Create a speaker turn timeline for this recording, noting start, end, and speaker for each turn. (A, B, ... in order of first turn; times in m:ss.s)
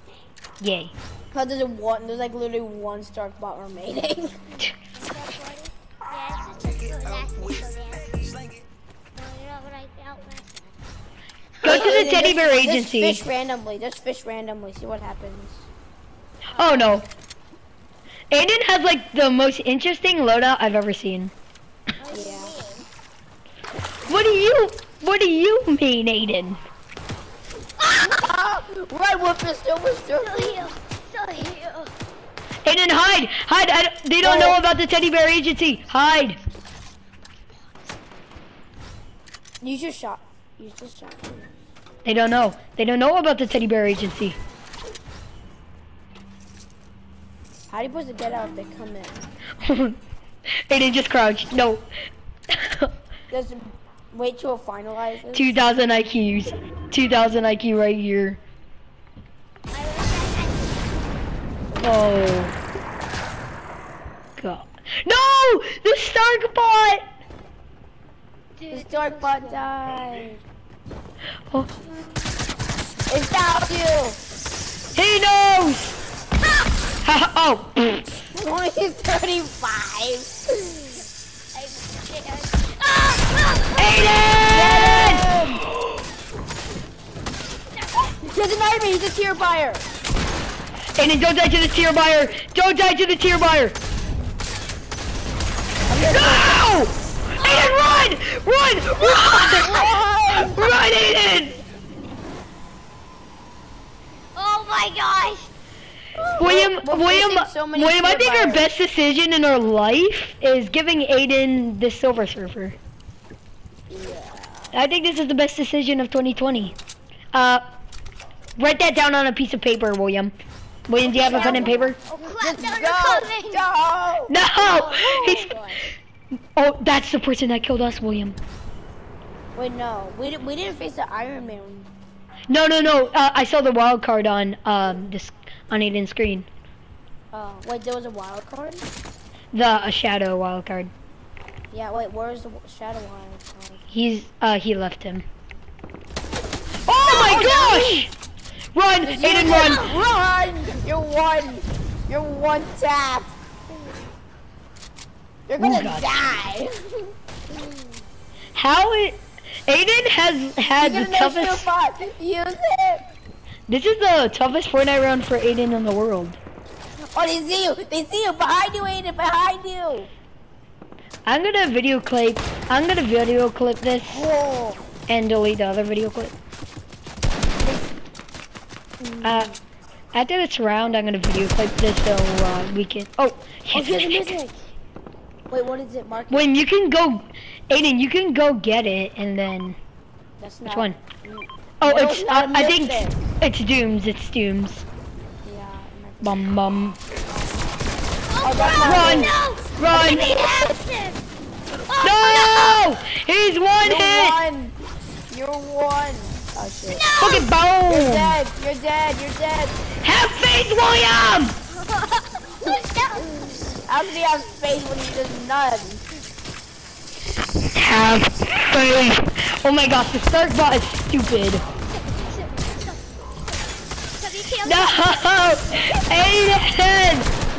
0:00.6-0:00.9 A
0:01.3-0:04.3 B
0:05.0-0:08.5 C
0:09.1-0:10.8 C
0:11.6-0:15.7 B
0:11.6-0:13.2 A
0:16.5-0:17.1 A
0:16.6-0:16.9 C
0:18.3-0:21.3 A
0:22.0-0:22.9 C
0:22.1-0:22.6 B
0:24.1-0:26.6 A
0:27.8-0:28.2 C
0:27.9-0:30.6 B
0:30.2-0:31.9 C
0:32.6-0:36.4 A
0:34.2-0:34.6 B
0:39.6-0:41.5 B
0:42.0-0:44.4 A
0:47.7-0:49.2 B
0:49.6-0:50.0 A
0:50.7-0:51.9 A
0:52.5-0:52.9 A
0:53.3-0:55.5 B
0:55.3-0:58.4 A
0:59.7-1:00.9 C
1:01.7-1:02.6 A
1:04.4-1:07.0 A
1:08.6-1:09.7 C
1:08.7-1:10.4 B
1:13.1-1:14.2 B
1:15.0-1:16.0 A
1:17.0-1:18.1 A
1:18.3-1:20.8 B
1:21.5-1:24.2 C
1:23.8-1:25.3 A
1:24.4-1:25.7 B
1:27.7-1:28.1 C
1:28.2-1:29.9 B
1:31.0-1:33.8 A
1:35.9-1:36.6 B
1:36.1-1:41.6 A
1:37.4-1:37.9 C
1:39.1-1:40.0 C
1:39.2-1:40.6 B
1:44.3-1:45.5 C
1:46.2-1:48.7 B
1:46.4-1:52.8 A
1:53.9-1:54.7 B
1:54.7-1:56.8 A
1:57.3-1:57.6 A
1:58.6-2:00.3 A
2:00.9-2:02.0 A
2:01.0-2:03.7 C
2:01.2-2:05.8 B
2:04.3-2:05.6 A
2:06.6-2:08.4 A
2:09.6-2:11.9 B
2:12.5-2:16.5 A
2:17.3-2:18.8 B
2:19.5-2:20.9 A
2:21.7-2:23.8 B
2:23.9-2:25.2 A
2:26.9-2:28.1 A
2:27.0-2:27.9 C
2:27.1-2:28.1 B
2:28.8-2:29.8 A
2:29.0-2:33.3 B
2:29.5-2:29.9 C
2:35.5-2:37.8 B
2:35.6-2:36.1 A
2:38.6-2:41.7 A
2:40.8-2:43.0 B
2:43.7-2:46.4 A
2:47.1-2:50.1 B
2:51.2-2:54.3 A
2:54.1-2:54.8 B
2:55.1-2:56.3 A
2:57.6-2:57.9 B
2:59.0-2:59.6 B
2:59.2-2:59.5 A
3:00.1-3:04.4 A
3:03.7-3:04.6 B
3:05.5-3:06.5 B
3:06.3-3:09.8 A
3:10.4-3:13.3 B
3:10.7-3:11.0 A
3:11.8-3:14.8 A
3:15.4-3:16.6 B
3:16.2-3:17.0 A
3:18.3-3:21.2 C
3:18.4-3:19.3 B
3:18.8-3:20.3 A
3:19.9-3:20.7 B
3:21.8-3:22.8 C
3:22.0-3:24.4 A
3:23.8-3:24.8 B
3:25.3-3:27.0 B
3:26.9-3:27.5 C
3:27.2-3:28.4 A
3:27.9-3:29.8 B
3:30.0-3:31.6 A
3:31.8-3:33.7 C
3:33.9-3:36.0 B
3:37.8-3:41.6 A
3:41.8-3:43.0 C
3:44.2-3:45.3 C
3:44.6-3:47.3 A